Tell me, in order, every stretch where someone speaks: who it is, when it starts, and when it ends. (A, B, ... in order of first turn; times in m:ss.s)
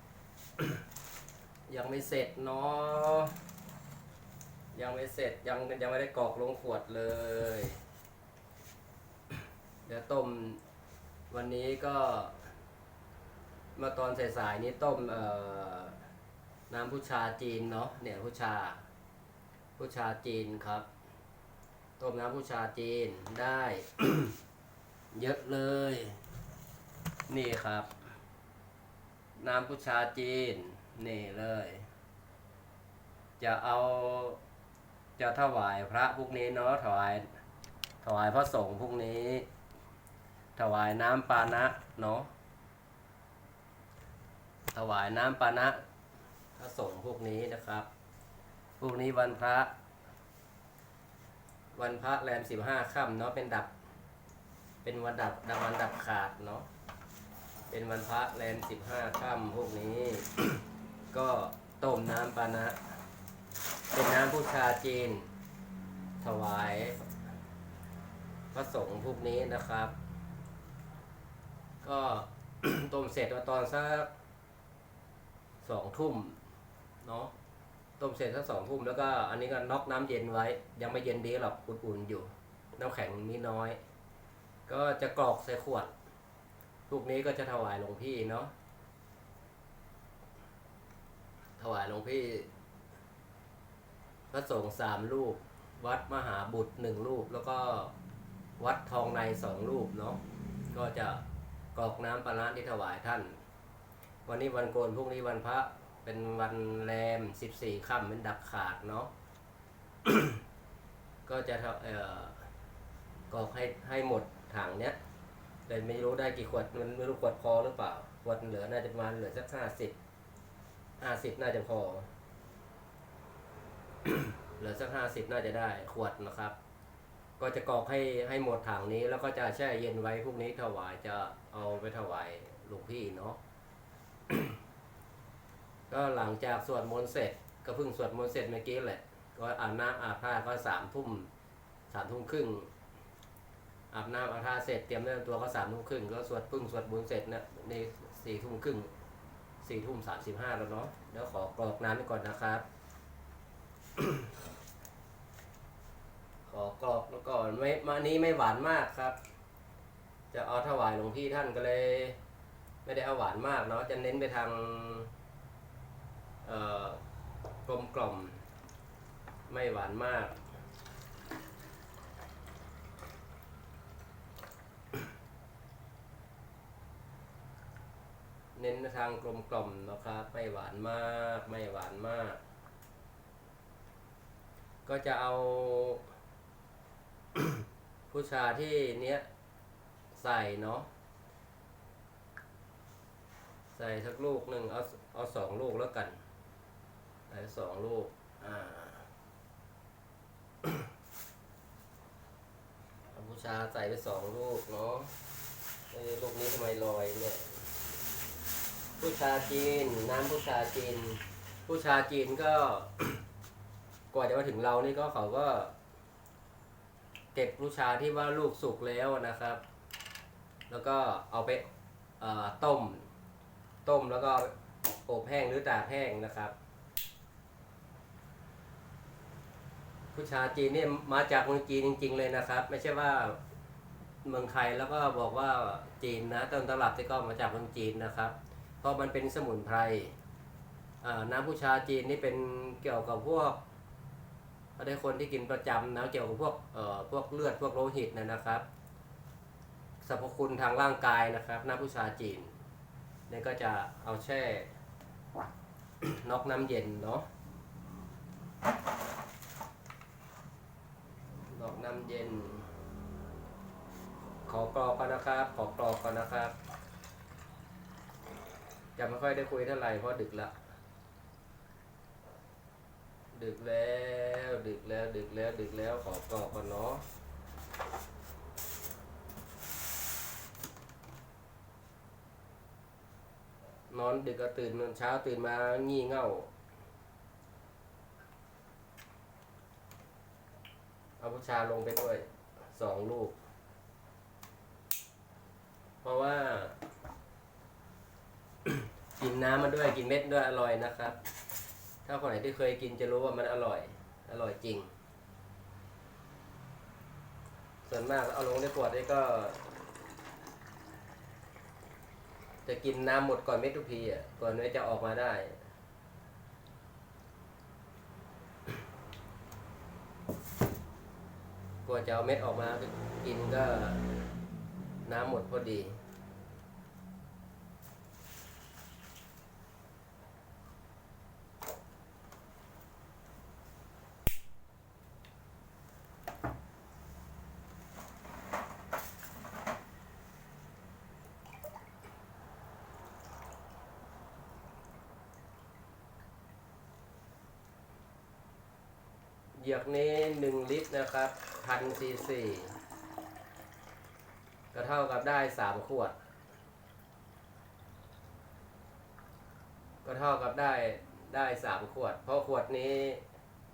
0:01.7-0:03.3 A
0:04.7-0:07.8 A
0:09.8-0:10.6 A
0:11.3-0:12.5 A
0:13.8-0:16.0 A
0:16.7-0:18.8 A
0:19.8-0:20.8 A
0:22.0-0:24.3 A
0:25.1-0:26.2 A
0:27.3-0:27.9 A
0:29.4-0:31.9 A
0:33.4-0:34.4 A
0:35.2-0:37.3 A
0:38.0-0:39.4 A
0:40.6-0:42.3 A
0:44.7-0:45.8 A
0:46.6-0:47.9 A
0:48.8-0:49.7 A
0:51.8-0:53.7 A
0:54.8-0:56.7 A
0:57.7-1:02.8 A
1:03.9-1:05.3 A
1:06.2-1:07.0 A
1:08.5-1:09.9 A
1:11.8-1:14.1 A
1:15.6-1:16.4 A
1:17.0-1:17.3 A
1:18.0-1:23.8 A
1:24.7-1:25.9 A
1:26.9-1:28.5 A
1:31.6-1:32.5 A
1:34.3-1:37.9 A
1:38.6-1:40.2 A
1:40.7-1:41.2 A
1:41.7-1:43.4 A
1:44.2-1:49.1 A
1:50.0-1:50.4 A
1:51.2-1:52.5 A
1:53.3-1:55.0 A
1:55.7-1:59.9 A
2:01.0-2:02.1 A
2:04.0-2:06.6 A
2:07.4-2:13.4 A
2:14.3-2:14.6 A
2:15.9-2:21.3 A
2:21.9-2:22.7 A
2:23.9-2:28.9 A
2:29.6-2:32.6 A
2:34.0-2:34.3 A
2:36.5-2:39.2 A
2:40.3-2:42.2 A
2:42.8-2:45.1 A
2:46.4-2:47.0 A
2:47.6-2:48.4 A
2:49.5-2:50.4 A
2:58.6-3:02.4 A
3:04.8-3:06.0 A
3:07.3-3:09.2 A
3:10.1-3:10.9 A
3:13.7-3:16.2 A
3:17.3-3:19.1 A
3:23.1-3:25.1 A
3:25.9-3:27.6 A
3:29.0-3:33.2 A
3:34.1-3:35.7 A
3:37.3-3:39.6 A
3:40.7-3:41.6 A
3:42.2-3:43.0 A
3:43.8-3:44.5 A
3:45.0-3:46.5 A
3:50.1-3:53.4 A
3:54.2-4:00.1 A
4:01.0-4:03.6 A
4:04.8-4:08.6 A
4:10.0-4:12.5 A
4:13.3-4:14.7 A
4:16.0-4:17.2 A
4:21.5-4:22.7 A
4:24.4-4:26.5 A
4:29.0-4:30.5 A
4:33.3-4:37.0 A
4:43.9-4:46.5 A
4:51.2-4:53.3 A
4:56.0-4:56.8 A
4:58.6-5:01.2 A
5:02.0-5:04.9 A
5:07.8-5:09.7 A
5:12.6-5:15.6 A
5:21.8-5:24.2 A
5:25.0-5:26.0 A
5:49.5-5:52.7 A
5:54.7-5:56.1 A
6:00.0-6:03.2 A